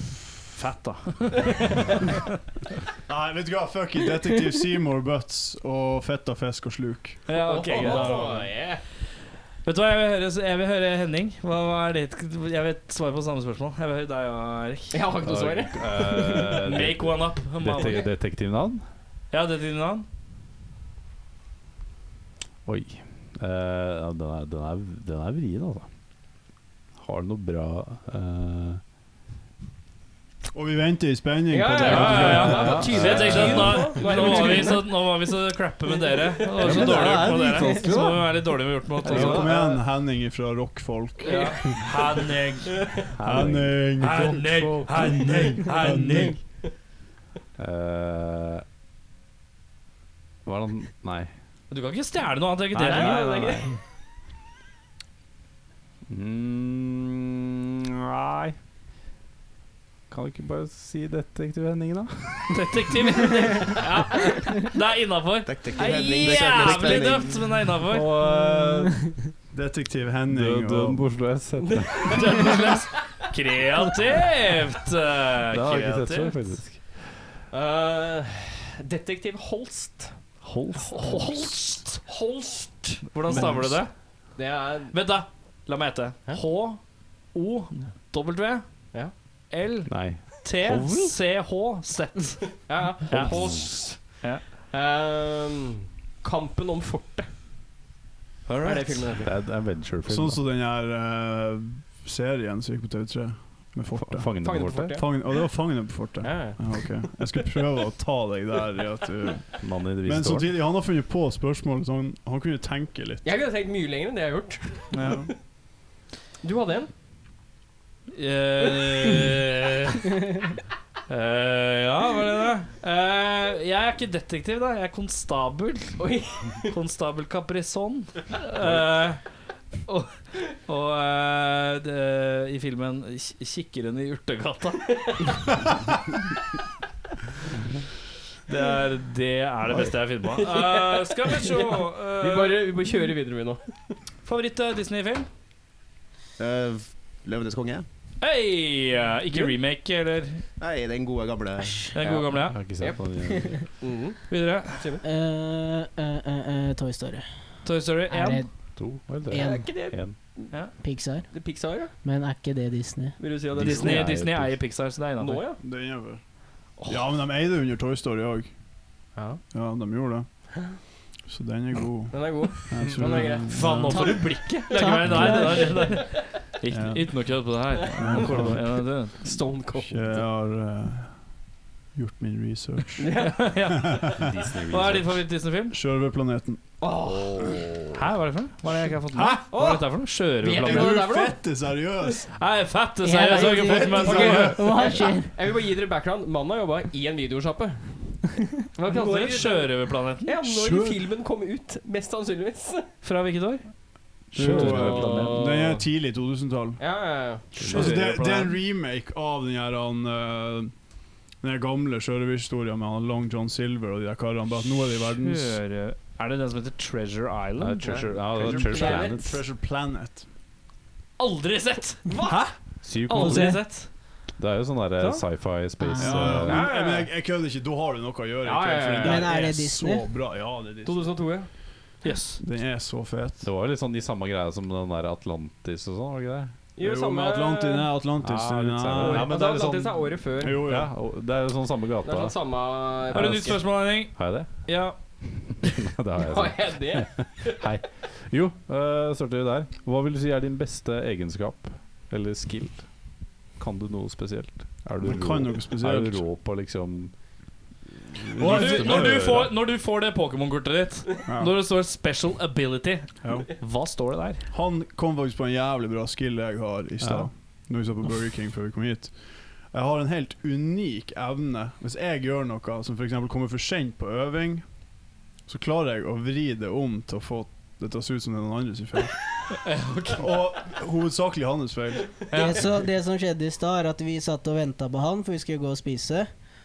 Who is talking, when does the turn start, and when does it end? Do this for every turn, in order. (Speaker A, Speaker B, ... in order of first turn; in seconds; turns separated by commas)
Speaker A: 0.6-1.6, Speaker B: 3.1-8.6, Speaker A: 7.3-8.2, Speaker C: 7.4-8.8, Speaker A: 9.6-15.0, Speaker C: 14.9-16.6, Speaker D: 15.2-18.9, Speaker A: 16.6-18.1, Speaker A: 19.3-20.1, Speaker D: 22.6-25.9, Speaker D: 27.0-28.8, Speaker B: 30.5-33.8, Speaker C: 31.5-35.1, Speaker A: 31.8-39.5, Speaker D: 32.0-34.6, Speaker C: 36.1-36.9, Speaker D: 36.6-39.7, Speaker B: 39.1-41.8, Speaker C: 39.3-39.8, Speaker A: 41.2-42.9, Speaker C: 41.2-41.8, Speaker D: 43.2-45.1, Speaker B: 43.2-46.4, Speaker A: 44.0-46.4, Speaker E: 45.7-46.2, Speaker D: 47.6-48.6, Speaker D: 50.5-51.3, Speaker A: 51.7-53.5, Speaker D: 52.7-53.8, Speaker C: 52.9-53.7, Speaker D: 56.1-58.6, Speaker D: 60.1-62.7, Speaker A: 62.5-68.1, Speaker F: 65.5-67.6, Speaker C: 65.9-66.4, Speaker D: 66.6-66.9, Speaker D: 67.9-69.1, Speaker B: 68.2-68.7, Speaker E: 68.7-69.0, Speaker B: 69.5-71.3, Speaker D: 70.3-72.3, Speaker C: 71.7-72.8, Speaker A: 72.1-76.4, Speaker D: 75.5-77.0, Speaker C: 77.5-80.4, Speaker D: 80.4-81.1, Speaker A: 80.9-82.1, Speaker C: 81.0-83.6, Speaker A: 83.1-83.9, Speaker D: 83.3-83.8, Speaker C: 84.3-85.0, Speaker A: 84.9-94.5, Speaker D: 89.9-91.2, Speaker C: 92.7-97.4, Speaker D: 93.1-93.8, Speaker A: 98.5-99.1, Speaker C: 98.6-99.3, Speaker D: 99.2-100.4, Speaker B: 100.1-113.3, Speaker D: 104.0-105.0, Speaker C: 104.4-105.3, Speaker C: 106.2-107.3, Speaker D: 109.6-110.5, Speaker C: 113.2-115.2, Speaker A: 114.9-115.4, Speaker B: 115.0-115.3, Speaker C: 116.4-116.9, Speaker A: 118.2-120.1, Speaker A: 121.1-126.1, Speaker C: 126.0-126.8, Speaker A: 126.7-135.3, Speaker A: 138.5-142.7, Speaker C: 140.3-144.0, Speaker A: 144.2-145.3, Speaker F: 146.4-147.9, Speaker A: 148.2-150.4, Speaker F: 150.6-151.9, Speaker E: 151.6-151.9, Speaker A: 151.9-152.6, Speaker C: 152.0-155.0, Speaker D: 152.5-153.6, Speaker A: 154.3-154.8, Speaker E: 155.0-157.2, Speaker A: 157.6-158.4, Speaker E: 158.1-158.8, Speaker D: 158.8-160.2, Speaker E: 159.3-160.1, Speaker C: 159.3-160.6, Speaker E: 160.7-163.2, Speaker C: 161.3-161.9, Speaker C: 163.2-164.2, Speaker D: 163.5-164.6, Speaker A: 163.6-165.4, Speaker C: 165.2-165.6, Speaker B: 165.6-168.5, Speaker C: 169.2-169.4, Speaker B: 169.5-174.4, Speaker C: 172.1-174.3, Speaker A: 173.4-179.2, Speaker E: 173.9-175.9, Speaker B: 175.1-175.3, Speaker C: 175.2-176.2, Speaker B: 176.7-179.2, Speaker C: 177.9-180.2, Speaker B: 179.8-181.4, Speaker B: 181.9-183.6, Speaker C: 183.0-183.5, Speaker A: 183.4-185.8, Speaker D: 184.2-185.2, Speaker B: 185.7-186.9, Speaker C: 186.8-187.6, Speaker D: 187.0-188.0, Speaker A: 188.0-191.0, Speaker B: 189.1-189.5, Speaker C: 189.5-192.2, Speaker B: 190.4-192.4, Speaker A: 192.3-194.7, Speaker E: 193.0-195.3, Speaker C: 193.3-198.2, Speaker B: 193.4-194.8, Speaker C: 198.8-202.9, Speaker A: 198.8-200.3, Speaker B: 200.4-201.0, Speaker A: 203.0-203.8, Speaker A: 204.3-205.4, Speaker B: 204.3-206.8, Speaker D: 204.3-205.3, Speaker C: 204.6-205.9, Speaker C: 206.8-207.5, Speaker D: 207.6-208.5, Speaker B: 207.6-210.8, Speaker A: 207.7-208.5, Speaker B: 211.3-215.6, Speaker A: 215.2-218.3, Speaker D: 217.6-219.4, Speaker B: 217.9-220.3, Speaker C: 217.9-219.2, Speaker A: 221.2-223.9, Speaker B: 222.3-222.5, Speaker D: 222.8-223.7, Speaker E: 223.2-223.7, Speaker D: 224.4-226.7, Speaker E: 225.8-226.4, Speaker B: 226.0-231.3, Speaker C: 226.3-227.1, Speaker C: 228.4-229.4, Speaker E: 229.0-230.1, Speaker C: 230.8-231.5, Speaker A: 232.0-232.4, Speaker B: 232.4-233.5, Speaker D: 233.4-236.6, Speaker C: 236.8-237.9, Speaker B: 236.8-239.4, Speaker D: 238.2-257.6, Speaker C: 239.0-240.7, Speaker B: 240.4-240.9, Speaker C: 242.0-243.6, Speaker A: 243.1-245.6, Speaker C: 246.2-247.6, Speaker B: 255.0-256.3, Speaker D: 258.1-259.6, Speaker B: 258.3-259.3, Speaker A: 258.4-264.5, Speaker B: 261.3-261.6, Speaker B: 263.2-263.6, Speaker B: 264.5-274.9, Speaker D: 267.0-267.3, Speaker B: 275.4-279.2, Speaker A: 279.6-280.2, Speaker B: 280.2-282.3, Speaker A: 282.3-282.6, Speaker E: 282.3-286.3